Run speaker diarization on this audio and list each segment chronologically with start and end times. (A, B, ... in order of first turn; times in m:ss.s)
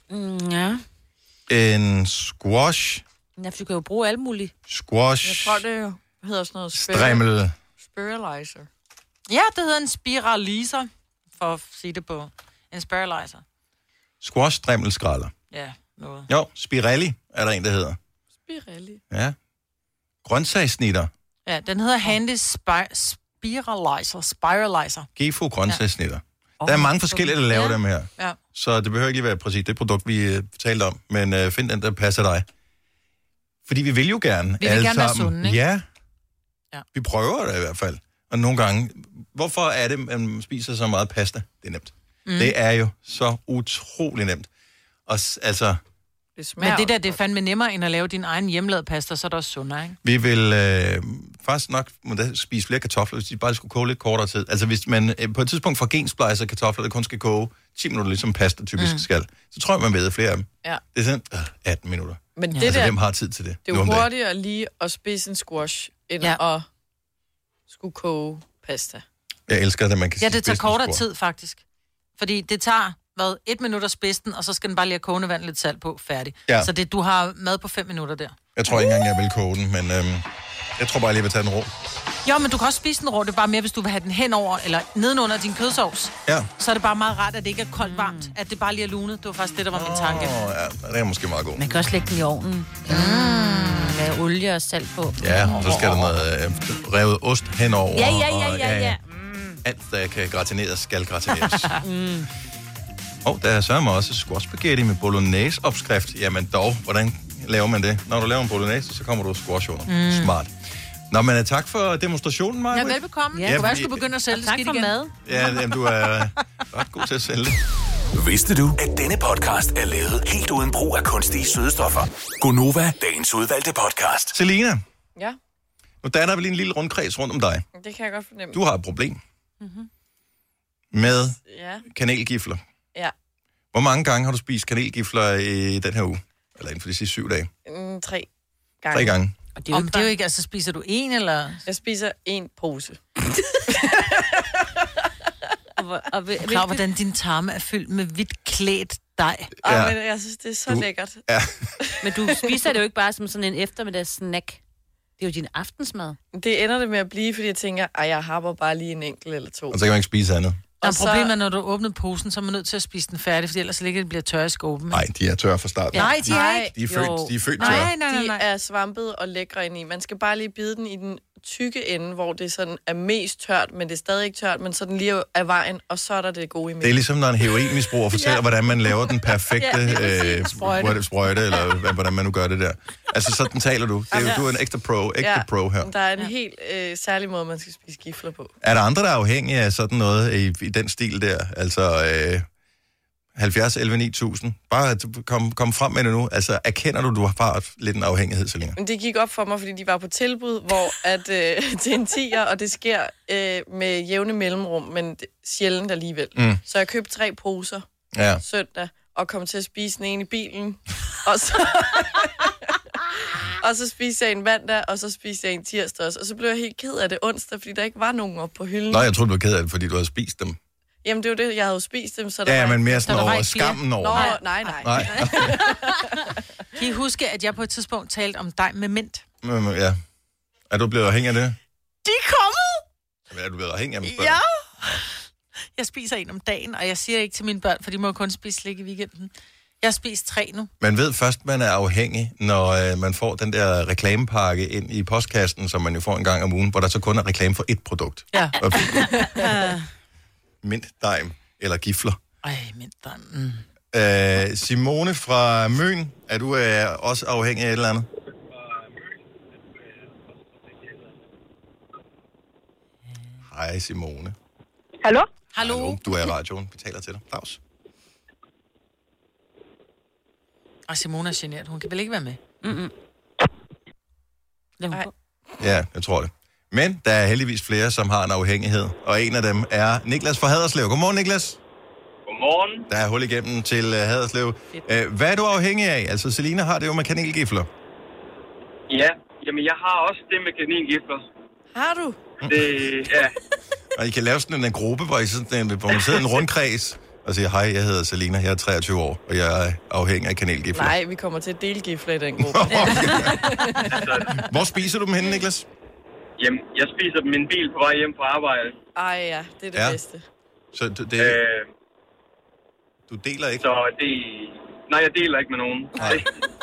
0:00.1-0:00.8 A
0:01.5-0:03.0 B
0:03.4-0:04.5 A
0:04.7-0:05.6 B
0:05.2-0:07.2 C
0:06.7-0:07.5 B
0:07.8-0:08.7 C
0:09.3-0:13.4 D
0:14.2-0:15.3 B
0:15.5-0:16.3 D
0:16.3-0:18.0 B
0:18.4-0:19.0 C
0:19.1-0:19.4 B
0:20.2-0:21.1 B
0:21.4-0:25.1 D
0:25.2-0:32.4 B
0:26.6-0:27.3 D
0:27.5-0:27.8 A
0:33.7-0:35.8 B
0:34.6-0:35.6 D
0:36.9-0:44.5 B
0:42.2-0:42.5 D
0:45.1-0:45.8 B
0:46.4-0:47.2 C
0:46.6-0:50.0 D
0:50.0-1:04.1 B
0:58.8-0:59.0 D
1:02.4-1:03.0 C
1:03.6-1:06.6 C
1:07.7-1:09.0 C
1:09.5-1:11.0 B
1:10.2-1:11.6 D
1:12.2-1:18.4 D
1:18.6-1:20.2 B
1:20.8-1:21.7 B
1:22.2-1:30.4 D
1:27.8-1:28.3 A
1:29.7-1:31.7 B
1:31.6-1:36.1 A
1:32.9-1:33.9 D
1:35.2-1:39.0 B
1:37.9-1:39.6 A
1:39.6-1:41.8 B
1:41.8-1:42.3 A
1:43.2-1:50.5 B
1:49.9-1:50.4 D
1:51.1-1:54.0 B
1:52.7-1:55.0 D
1:53.3-1:55.3 A
1:55.2-1:57.6 B
1:58.1-2:04.4 E
2:04.3-2:04.8 B
2:06.0-2:07.6 B
2:07.7-2:08.6 C
2:08.5-2:09.2 B
2:10.9-2:11.4 B
2:11.4-2:11.8 C
2:11.9-2:12.6 B
2:13.7-2:17.5 B
2:17.6-2:18.3 C
2:18.8-2:19.2 C
2:18.9-2:19.3 B
2:19.6-2:20.1 A
2:19.7-2:21.6 D
2:21.6-2:23.0 C
2:23.6-2:24.9 C
2:25.8-2:26.8 A
2:26.4-2:29.5 D
2:29.6-2:31.2 C
2:29.6-2:30.0 B
2:30.7-2:31.7 B
2:31.8-2:32.0 C
2:32.0-2:34.6 A
2:35.2-2:36.2 A
2:36.3-2:39.8 C
2:39.7-2:40.6 B
2:40.8-2:41.3 C
2:40.8-2:45.0 D
2:44.9-2:47.9 B
2:45.9-2:48.4 D
2:46.1-2:57.1 C
2:56.8-3:05.9 B
2:59.6-3:01.0 D
3:04.1-3:04.4 C
3:05.2-3:08.5 C
3:08.6-3:12.4 B
3:13.4-3:18.8 B
3:18.8-3:27.8 C
3:26.3-3:26.6 B
3:28.1-3:28.4 B
3:28.4-3:39.1 C
3:38.9-3:40.6 B
3:41.0-3:46.2 C
3:42.4-3:45.6 B
3:43.0-3:45.8 D
3:46.7-3:49.2 D
3:49.4-3:50.0 B
3:50.7-3:51.6 B
3:52.0-3:52.8 D
3:53.3-3:55.0 B
3:54.0-3:54.9 D
3:55.8-3:59.3 D
3:59.8-4:00.7 D
4:00.8-4:09.6 B
4:08.3-4:09.8 D
4:10.6-4:12.2 B
4:12.4-4:13.6 D
4:13.9-4:18.1 B
4:23.4-4:24.4 B
4:25.5-4:26.0 D
4:25.6-4:27.6 B
4:30.9-4:32.4 D
4:32.6-4:32.9 A
4:34.8-4:35.1 A
4:35.6-4:41.6 B
4:42.3-4:42.8 F
4:42.9-4:47.7 B
4:48.9-4:51.2 F
4:51.7-4:52.2 C
4:52.4-4:52.8 B
4:52.4-4:53.3 F
4:54.0-5:00.9 B
5:00.7-5:04.0 C
5:02.4-5:03.6 B
5:03.9-5:04.4 F
5:04.3-5:05.7 B
5:06.4-5:08.8 F
5:09.0-5:10.2 C
5:10.7-5:11.4 B
5:11.2-5:11.7 F
5:13.1-5:13.6 B
5:13.6-5:16.3 F
5:16.0-5:16.2 B